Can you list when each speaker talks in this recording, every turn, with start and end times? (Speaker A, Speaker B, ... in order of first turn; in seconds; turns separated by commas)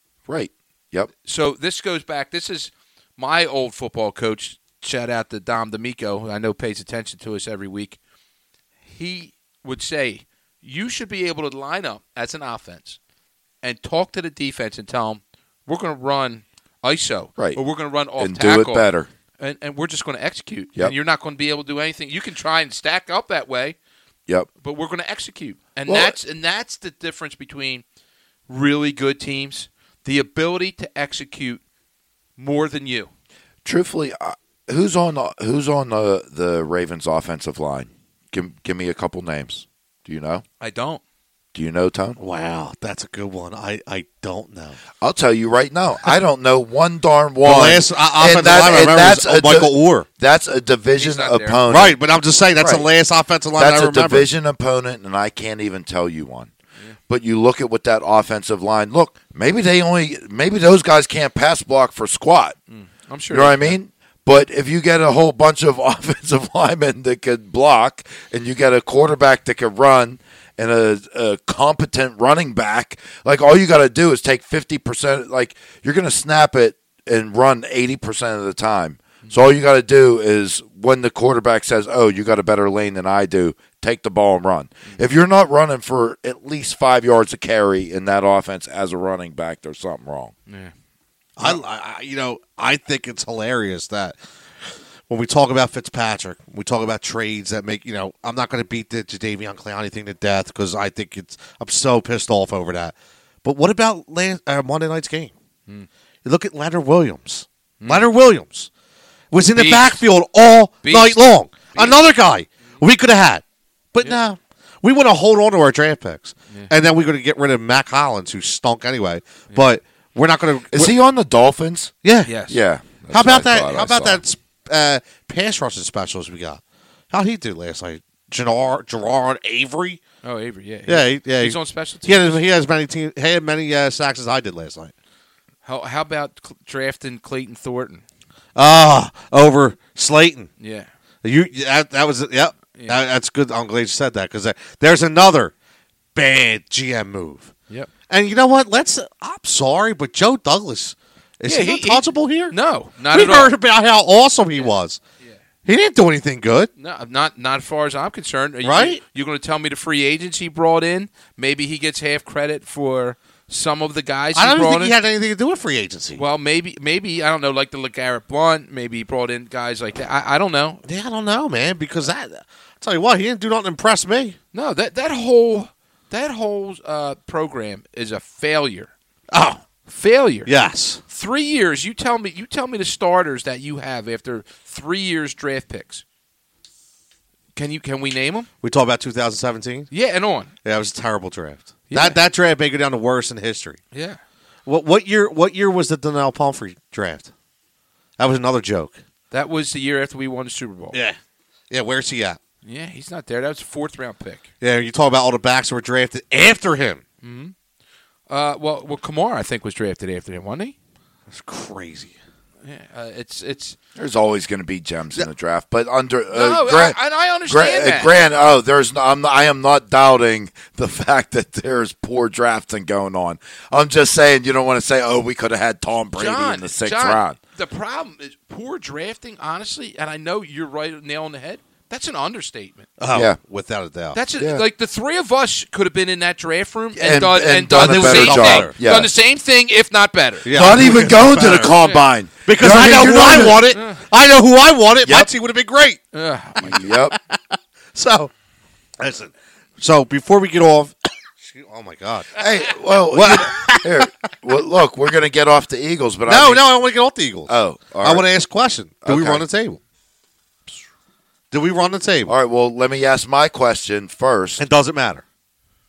Speaker A: 0.3-1.1, Speaker B: 1.2-8.0, Speaker B: 8.9-13.0, Speaker B: 13.6-18.9, Speaker A: 18.2-19.1, Speaker B: 19.4-23.8, Speaker B: 24.6-27.8, Speaker A: 25.9-26.1, Speaker B: 28.5-31.6, Speaker B: 32.4-33.1, Speaker A: 33.6-40.4, Speaker B: 40.6-41.0, Speaker A: 41.5-42.2, Speaker C: 42.2-44.8, Speaker A: 45.0-52.0, Speaker C: 47.4-50.0, Speaker B: 51.0-51.6, Speaker C: 51.7-54.3, Speaker A: 52.6-52.9, Speaker A: 53.6-56.5, Speaker A: 57.1-62.6, Speaker B: 62.7-63.8, Speaker A: 63.3-90.3, Speaker C: 91.4-94.2, Speaker C: 95.1-105.3, Speaker C: 106.2-108.7, Speaker B: 107.8-108.1, Speaker C: 109.3-113.4, Speaker B: 109.5-110.0, Speaker B: 110.8-111.2, Speaker B: 111.7-112.0, Speaker C: 113.9-120.9, Speaker A: 120.7-121.9, Speaker C: 122.0-122.3, Speaker B: 122.2-122.6, Speaker A: 122.5-124.2, Speaker C: 123.1-126.6, Speaker C: 127.1-130.0, Speaker B: 130.2-132.4, Speaker C: 130.9-134.9, Speaker B: 135.6-138.0, Speaker C: 138.6-140.5, Speaker B: 140.6-140.9, Speaker C: 141.2-145.5, Speaker B: 142.7-143.0, Speaker C: 146.1-147.5, Speaker C: 148.1-152.5, Speaker B: 151.4-153.5, Speaker C: 153.1-155.0, Speaker C: 155.6-156.7, Speaker B: 156.8-164.9, Speaker C: 158.6-159.0, Speaker C: 164.3-166.2, Speaker B: 166.2-170.8, Speaker C: 170.8-174.4, Speaker B: 174.5-178.9, Speaker C: 179.3-179.6, Speaker B: 179.9-180.5, Speaker C: 180.4-181.0, Speaker B: 181.1-186.0, Speaker B: 187.5-188.5, Speaker C: 188.6-189.9, Speaker B: 189.9-190.5, Speaker C: 190.6-193.8, Speaker B: 191.9-192.2, Speaker B: 193.9-194.2, Speaker C: 194.7-197.3, Speaker C: 198.2-198.9, Speaker B: 199.3-201.0, Speaker C: 201.7-202.4, Speaker B: 202.6-204.5, Speaker C: 204.6-207.0, Speaker B: 207.2-207.5, Speaker B: 208.3-210.7, Speaker C: 211.3-212.1, Speaker B: 212.6-213.8, Speaker A: 213.9-227.4, Speaker B: 216.3-218.1, Speaker B: 226.2-232.9, Speaker C: 233.0-234.2, Speaker B: 234.1-240.5, Speaker A: 234.4-234.6, Speaker A: 236.9-239.1, Speaker C: 237.7-238.7, Speaker C: 240.4-241.7, Speaker A: 240.5-243.7, Speaker C: 242.4-246.0, Speaker B: 243.7-244.0, Speaker A: 245.0-245.3, Speaker B: 246.1-246.7, Speaker A: 246.6-247.2, Speaker C: 246.6-248.3, Speaker C: 249.0-252.5, Speaker A: 252.4-256.6, Speaker C: 253.1-254.1, Speaker C: 256.3-259.8, Speaker A: 257.5-258.2, Speaker A: 259.0-259.4, Speaker C: 261.5-262.3, Speaker A: 262.2-264.6, Speaker C: 264.6-265.2